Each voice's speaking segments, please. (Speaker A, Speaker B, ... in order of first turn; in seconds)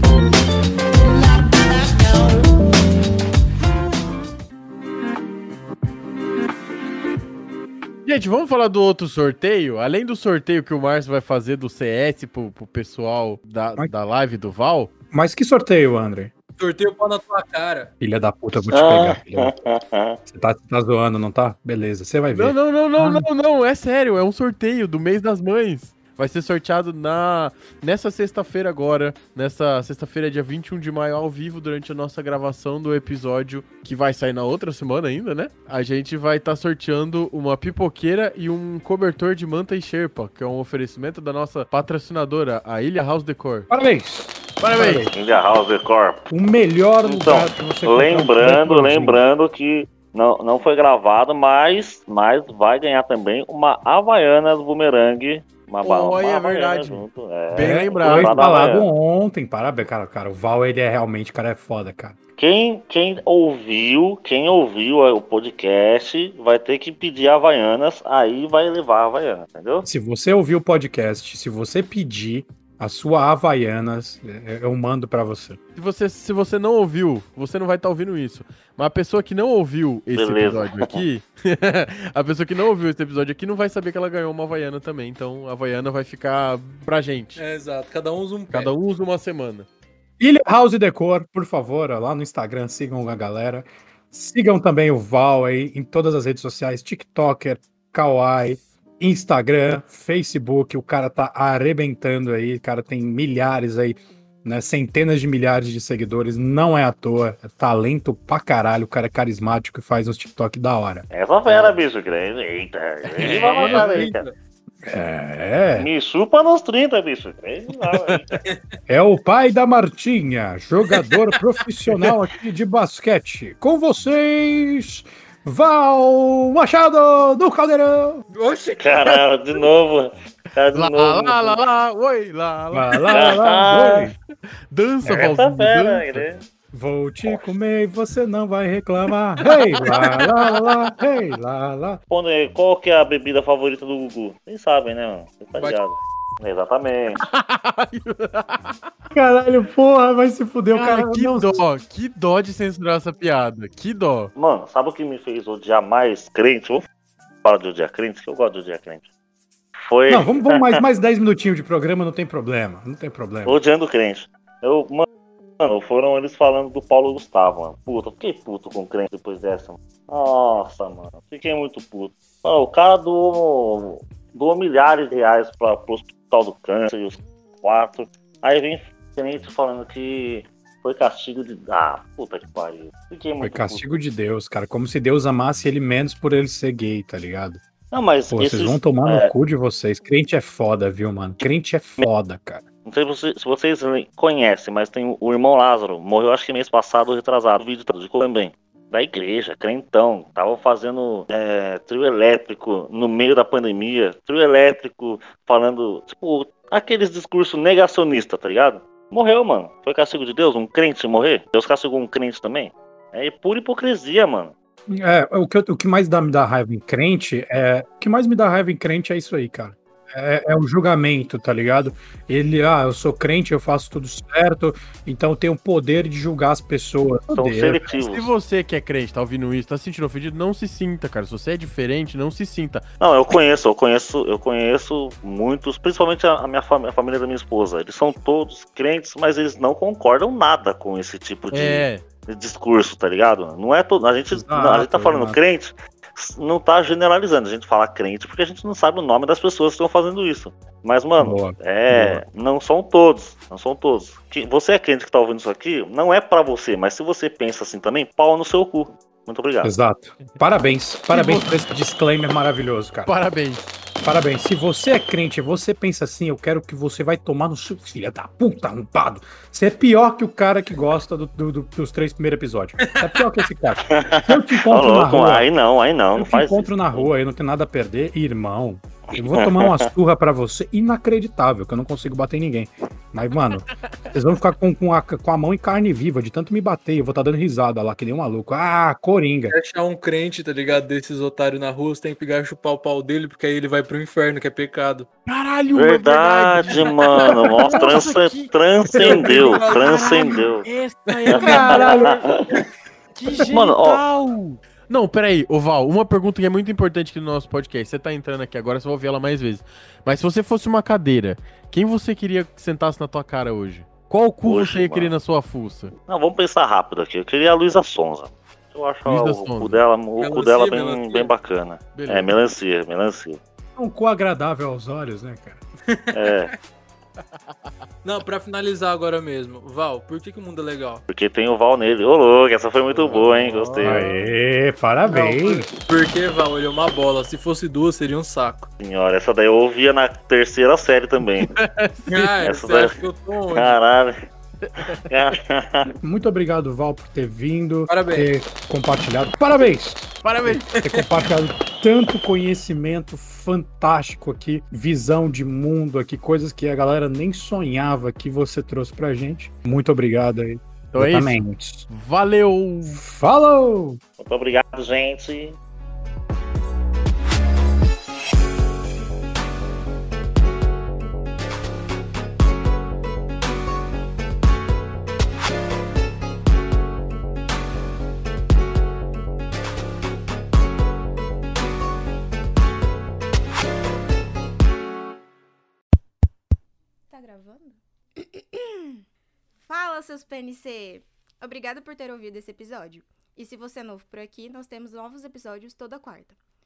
Speaker A: 8.0-14.9, 22.3-43.7, 44.6-45.1, 55.8-58.5, 75.7-87.4, 88.5-89.7, 113.2-113.9, 130.7-133.3, 134.7-136.2, 139.8-140.8, 147.2-148.8, 150.7-154.3, 227.9-232.8, 241.5-242.0, 261.1-261.5, 263.1-263.6, 295.2-298.5, 299.1-302.3, 303.1-315.9, 319.1-319.8, 321.9-322.3, 332.9-334.0, 341.4-342.3, 344.6-345.1, 350.2-350.7, 360.9-363.0
Speaker B: 15.1-16.3, 18.0-19.6, 20.3-23.2, 43.7-45.1, 46.3-49.2, 57.6-62.1, 69.8-75.6, 90.2-111.0, 114.8-115.9, 118.9-128.2, 132.7-134.1, 135.0-135.4, 136.2-142.0, 149.1-151.6, 160.1-163.6, 183.4-187.6, 188.3-192.6, 214.9-227.9, 244.3-245.4, 251.2-252.2, 259.6-263.1, 264.0-275.5, 276.1-289.5, 301.6-301.9, 323.8-325.6, 333.8-335.7, 346.0-361.9, 362.8-364.0
Speaker C: 16.6-17.9, 87.4-88.7, 113.2-114.3, 118.3-118.6, 128.3-129.6, 272.8-273.1, 289.5-295.1, 299.0-300.4, 301.1-302.6, 320.2-321.3, 325.9-326.5, 328.0-331.0, 335.0-338.7, 342.1-343.8, 347.9-348.3, 350.7-351.1
Speaker D: 18.6-20.2, 45.1-46.3, 47.0-58.9, 62.4-69.9, 80.1-81.0, 111.1-114.3, 115.8-118.3, 128.8-131.6, 133.1-134.1, 135.1-136.4, 142.1-147.2, 154.3-156.8, 157.4-159.1, 159.8-160.8, 163.4-165.1, 165.6-183.9, 187.9-189.3, 192.8-214.5, 227.3-228.3, 233.0-259.7, 273.9-277.1, 279.1-279.9, 295.7-300.7, 301.3-302.5, 303.5-304.0, 314.4-315.1, 316.1-323.4, 326.1-326.5, 331.1-334.0, 338.8-341.5, 342.4-343.0, 343.5-344.3, 345.1-345.9, 364.2-365.6
Speaker E: 387.1-389.0, 389.6-396.4